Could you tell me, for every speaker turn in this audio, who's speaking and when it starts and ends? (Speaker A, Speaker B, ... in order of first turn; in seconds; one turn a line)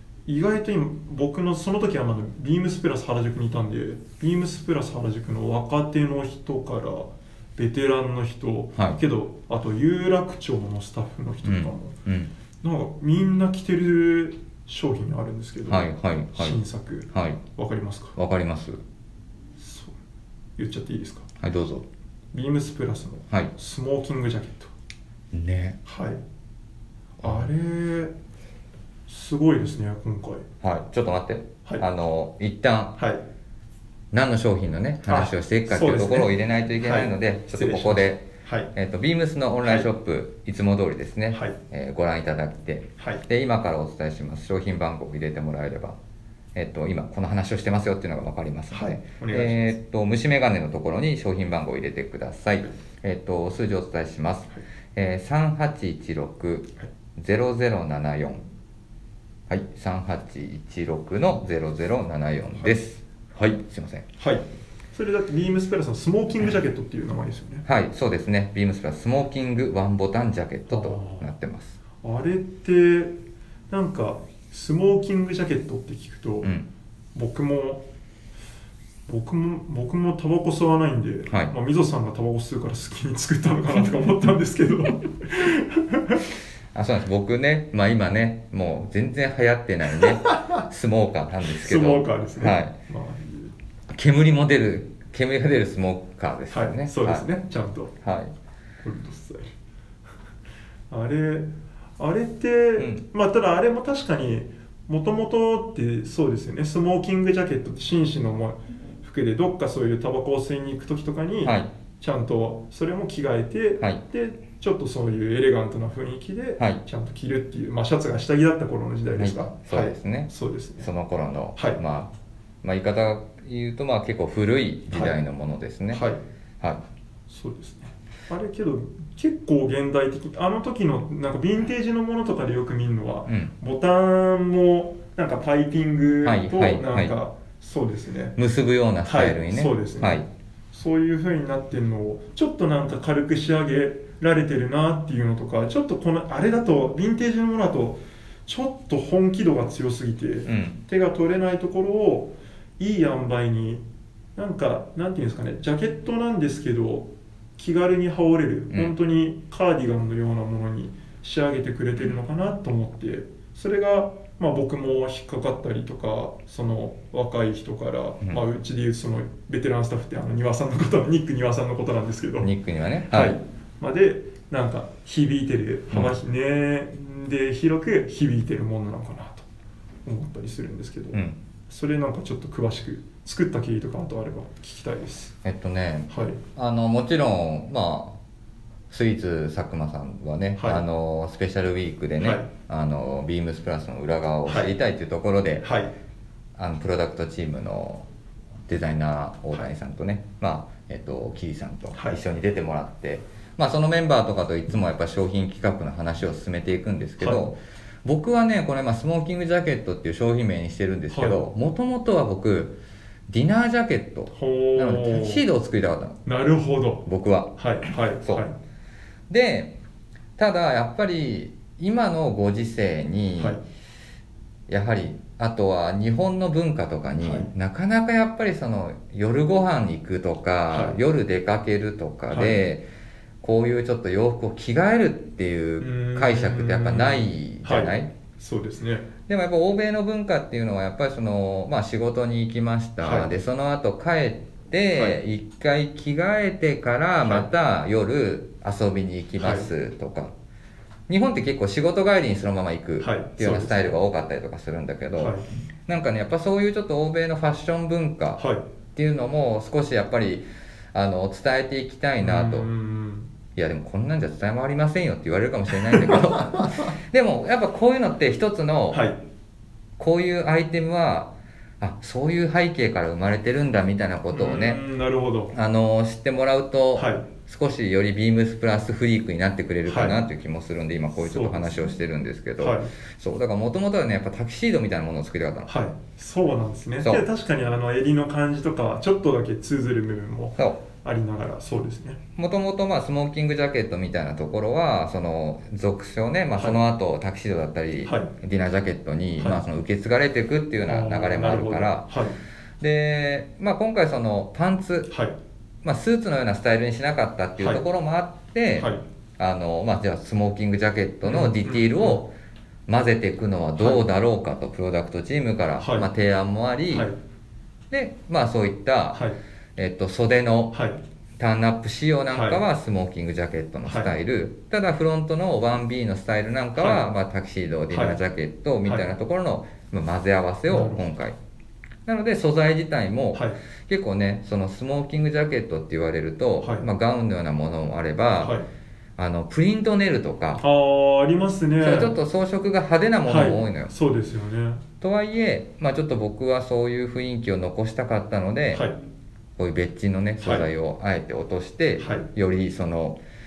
Speaker A: 0.2-12.0
Speaker B: 11.4-12.3
Speaker A: 12.6-18.1
Speaker B: 15.7-16.6
Speaker B: 17.1-17.4
Speaker B: 18.1-18.8
Speaker A: 19.6-19.9
Speaker A: 20.6-21.3
Speaker B: 21.4-21.9
Speaker A: 22.3-24.7
Speaker B: 25.3-25.8
Speaker A: 25.8-26.2
Speaker B: 27.2-27.5
Speaker A: 27.2-28.1
Speaker A: 29.1-30.4
Speaker B: 30.6-33.0
Speaker A: 33.0-33.2
Speaker B: 34.1-46.0
Speaker A: 35.1-38.7
Speaker A: 41.3-41.6
Speaker A: 43.0-43.2
Speaker B: 46.5-58.4
Speaker A: 48.7-49.8
Speaker B: 59.5-64.0
Speaker A: 64.2-67.7
Speaker B: 67.7-71.8
Speaker A: 70.7-71.2
Speaker A: 72.0-73.2
Speaker A: 73.7-76.5
Speaker A: 77.1-77.8
Speaker A: 79.1-86.2
Speaker B: 86.7-92.7
Speaker A: 91.5-93.5
Speaker B: 93.9-97.2
Speaker A: 96.5-98.0
Speaker B: 98.0-98.3
Speaker A: 98.8-99.5
Speaker A: 100.9-120.9
Speaker B: 102.8-103.0
Speaker B: 111.4-111.7
Speaker B: 119.1-126.0
Speaker A: 125.9-126.2
Speaker A: 127.3-138.4
Speaker B: 133.3-133.5
Speaker B: 136.2-137.1
Speaker B: 138.4-140.3
Speaker A: 139.0-153.8
Speaker B: 150.5-150.8
Speaker A: 154.3-172.5
Speaker B: 172.4-173.4
Speaker A: 173.1-179.5
Speaker A: 180.0-185.3
Speaker B: 185.4-188.2
Speaker A: 186.1-186.4
Speaker B: 188.9-195.7
Speaker A: 190.6-190.8
Speaker A: 192.2-192.5
Speaker A: 194.4-194.7
Speaker A: 195.6-195.9
Speaker B: 196.6-198.1
Speaker B: 198.7-212.8
Speaker A: 201.9-202.2
Speaker A: 207.2-207.4
Speaker A: 211.1-211.4
Speaker B: 213.3-216.2
Speaker A: 214.3-215.4
Speaker A: 216.2-218.5
Speaker B: 217.0-217.6
Speaker B: 219.3-219.8
Speaker B: 220.4-223.6
Speaker B: 224.7-232.8
Speaker A: 227.2-227.5
Speaker A: 230.7-231.0
Speaker A: 232.3-232.6
Speaker B: 233.4-238.1
Speaker A: 235.8-239.1
Speaker B: 239.3-250.3
Speaker A: 243.0-243.3
Speaker A: 247.2-247.5
Speaker A: 249.4-249.7
Speaker B: 251.1-262.7
Speaker A: 253.0-254.0
Speaker A: 255.2-255.4
Speaker A: 258.4-258.6
Speaker A: 262.2-263.3
Speaker B: 263.5-269.0
Speaker A: 265.9-266.6
Speaker A: 268.9-269.2
Speaker B: 270.0-274.8
Speaker A: 274.3-275.5
Speaker B: 275.5-285.7
Speaker A: 276.9-277.2
Speaker A: 279.9-280.2
Speaker A: 281.2-281.9
Speaker A: 282.6-282.9
Speaker A: 285.7-292.2
Speaker B: 292.4-302.1
Speaker A: 298.0-298.3
Speaker A: 299.4-299.6
Speaker A: 300.8-302.4
Speaker B: 302.8-305.1
Speaker A: 305.1-305.4
Speaker B: 305.8-312.3
Speaker A: 307.6-307.8
Speaker A: 308.8-309.0
Speaker A: 311.2-312.2
Speaker B: 312.9-317.1
Speaker A: 313.8-314.0
Speaker A: 315.8-316.1
Speaker A: 316.9-317.2
Speaker B: 317.9-319.2
Speaker A: 319.1-319.4
Speaker B: 319.8-320.8
Speaker A: 320.7-321.0
Speaker B: 321.4-331.4
Speaker A: 322.3-322.6
Speaker A: 323.9-324.1
Speaker A: 326.8-327.0
Speaker A: 327.9-328.2
Speaker A: 330.7-331.1
Speaker B: 332.1-338.6
Speaker A: 336.6-336.9
Speaker A: 338.4-338.7
Speaker B: 339.2-340.6
Speaker A: 340.6-342.2
Speaker B: 341.8-343.9
Speaker A: 343.2-344.8
Speaker B: 345.0-348.9
Speaker B: 349.6-353.2
Speaker A: 350.4-350.6
Speaker A: 352.0-352.3